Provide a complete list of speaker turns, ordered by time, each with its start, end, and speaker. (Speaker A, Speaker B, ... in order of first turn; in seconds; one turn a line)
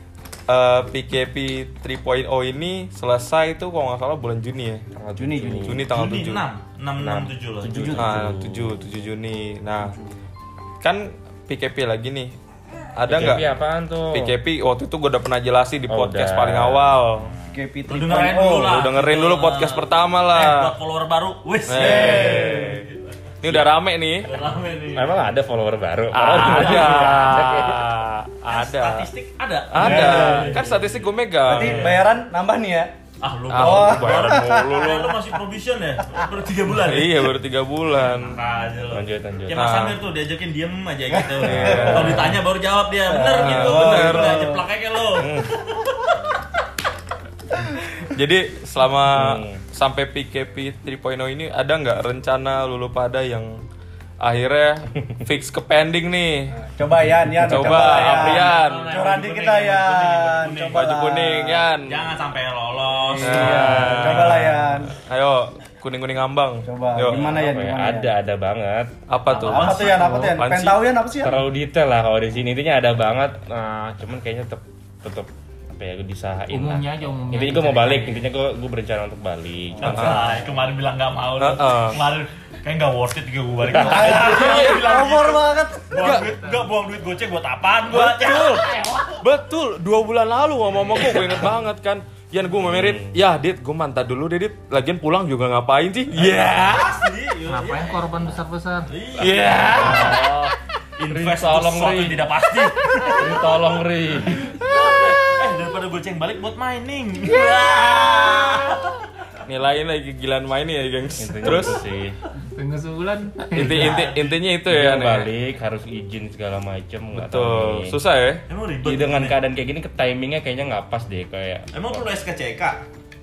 Speaker A: 0.5-4.8
Speaker B: 5.0-5.8
Speaker C: 5.2-5.8
Speaker A: 5.6-6.5
Speaker D: 5.9-8.0
Speaker B: 7.0-8.8
Speaker C: 7.7-8.0
Speaker A: 7.9-9.9
Speaker C: 9.8-10.2
Speaker A: 10.8-12.3
Speaker A: 12.9-13.6
Speaker B: 13.1-14.3
Speaker A: 14.1-17.3
Speaker B: 15.9-17.0
Speaker D: 17.2-23.6
Speaker C: 17.5-18.7
Speaker A: 18.6-20.7
Speaker A: 21.7-22.8
Speaker C: 21.8-22.8
Speaker B: 21.9-22.7
Speaker A: 23.4-24.3
Speaker D: 24.2-25.3
Speaker B: 24.9-28.3
Speaker A: 26.1-27.9
Speaker D: 26.3-27.4
Speaker A: 28.4-29.1
Speaker D: 28.5-32.0
Speaker A: 29.7-31.9
Speaker C: 29.8-30.6
Speaker C: 31.4-32.9
Speaker D: 33.2-37.3
Speaker A: 33.5-35.0
Speaker C: 33.5-35.2
Speaker A: 36.8-38.4
Speaker D: 38.1-46.1
Speaker B: 38.9-39.7
Speaker A: 39.5-40.0
Speaker C: 41.1-42.4
Speaker A: 41.4-42.4
Speaker C: 43.1-44.6
Speaker A: 43.3-44.4
Speaker A: 45.1-45.5
Speaker A: 48.0-53.5
Speaker B: 49.1-49.6
Speaker A: 54.2-56.6
Speaker C: 56.6-61.7
Speaker A: 57.4-59.0
Speaker D: 57.6-60.9
Speaker A: 60.7-62.0
Speaker D: 61.8-63.8
Speaker C: 62.9-64.9
Speaker A: 63.2-67.3
Speaker B: 63.2-64.5
Speaker C: 66.7-68.1
Speaker B: 67.1-68.9
Speaker A: 69.1-70.9
Speaker C: 69.3-71.4
Speaker D: 69.3-70.1
Speaker B: 71.2-80.3
Speaker E: 76.5-78.3
Speaker D: 79.8-89.0
Speaker A: 79.9-80.2
Speaker A: 81.4-82.0
Speaker C: 83.7-85.9
Speaker A: 84.2-85.0
Speaker A: 86.0-86.3
Speaker E: 86.0-86.6
Speaker A: 87.9-97.0
Speaker D: 91.0-91.3
Speaker B: 92.7-93.2
Speaker D: 96.1-98.3
Speaker E: 97.5-98.9
Speaker D: 98.9-100.4
Speaker A: 99.2-100.2
Speaker B: 99.2-100.5
Speaker D: 101.0-103.4
Speaker B: 101.1-102.3
Speaker B: 103.1-104.6
Speaker D: 104.4-109.0
Speaker A: 109.5-111.8
Speaker B: 111.2-112.2
Speaker E: 112.5-114.0
Speaker A: 113.5-115.3
Speaker D: 113.7-114.4
Speaker B: 114.7-118.0
Speaker A: 117.1-118.4
Speaker D: 118.5-119.4
Speaker B: 118.8-122.0
Speaker D: 121.7-122.8